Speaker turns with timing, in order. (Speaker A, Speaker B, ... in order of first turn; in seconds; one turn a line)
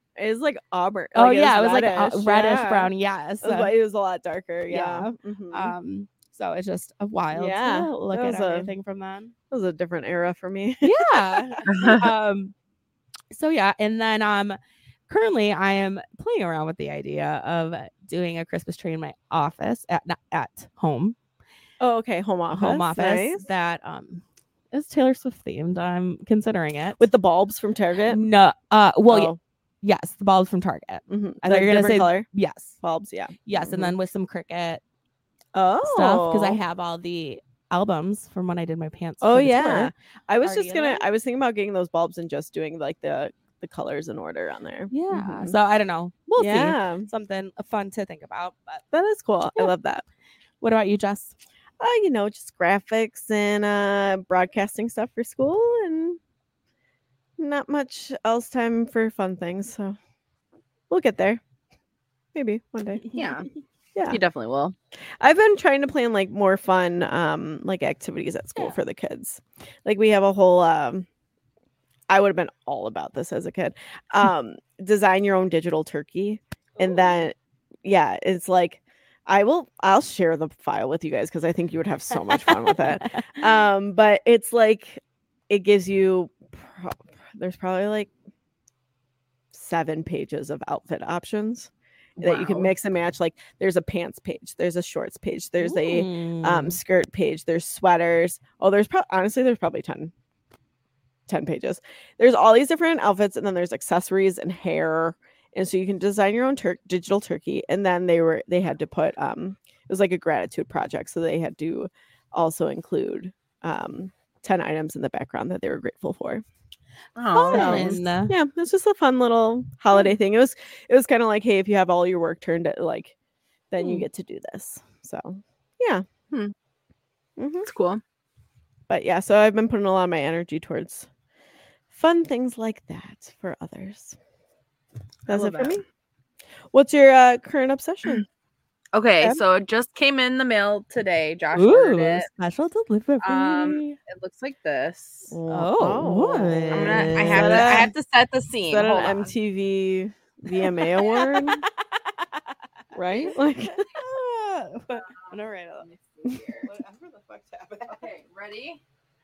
Speaker A: 0.2-5.8
Speaker B: 1.1-3.7
Speaker B: 4.7-9.3
Speaker A: 7.3-8.7
Speaker A: 9.5-11.9
Speaker B: 10.8-12.5
Speaker C: 11.7-12.1
Speaker B: 13.3-21.2
Speaker A: 21.8-23.4
Speaker B: 22.5-27.0
Speaker A: 27.0-28.2
Speaker B: 28.1-32.8
Speaker A: 29.1-29.4
Speaker A: 31.1-32.3
Speaker A: 32.8-34.0
Speaker B: 33.5-34.8
Speaker A: 35.5-36.6
Speaker B: 35.8-41.1
Speaker A: 39.2-45.6
Speaker B: 44.9-48.8
Speaker A: 46.4-47.1
Speaker A: 48.9-50.0
Speaker B: 50.6-51.4
Speaker A: 51.8-56.2
Speaker A: 57.4-60.0
Speaker A: 60.9-61.4
Speaker A: 62.3-63.1
Speaker C: 63.1-63.5
Speaker A: 64.0-64.2
Speaker C: 64.1-64.8
Speaker A: 65.2-71.1
Speaker A: 72.1-88.1
Speaker B: 82.4-83.3
Speaker A: 89.5-100.1
Speaker C: 92.2-92.7
Speaker B: 95.6-96.8
Speaker A: 101.3-116.4
Speaker C: 117.2-118.0
Speaker B: 117.3-118.3
Speaker A: 117.5-123.1
Speaker A: 123.7-126.0
Speaker A: 127.4-127.7
Speaker C: 127.7-128.0
Speaker A: 128.9-131.1
Speaker A: 131.9-134.2
Speaker C: 135.3-135.8
Speaker A: 135.3-135.8
Speaker A: 136.7-138.3
Speaker C: 138.9-142.3
Speaker B: 141.5-144.0
Speaker C: 143.2-145.3
Speaker A: 145.3-147.9
Speaker B: 145.5-147.8
Speaker C: 146.7-149.3
Speaker A: 148.7-151.7
Speaker B: 151.0-152.5
Speaker A: 152.9-154.0
Speaker B: 153.7-155.9
Speaker C: 154.9-156.7
Speaker B: 156.8-157.6
Speaker C: 157.9-158.8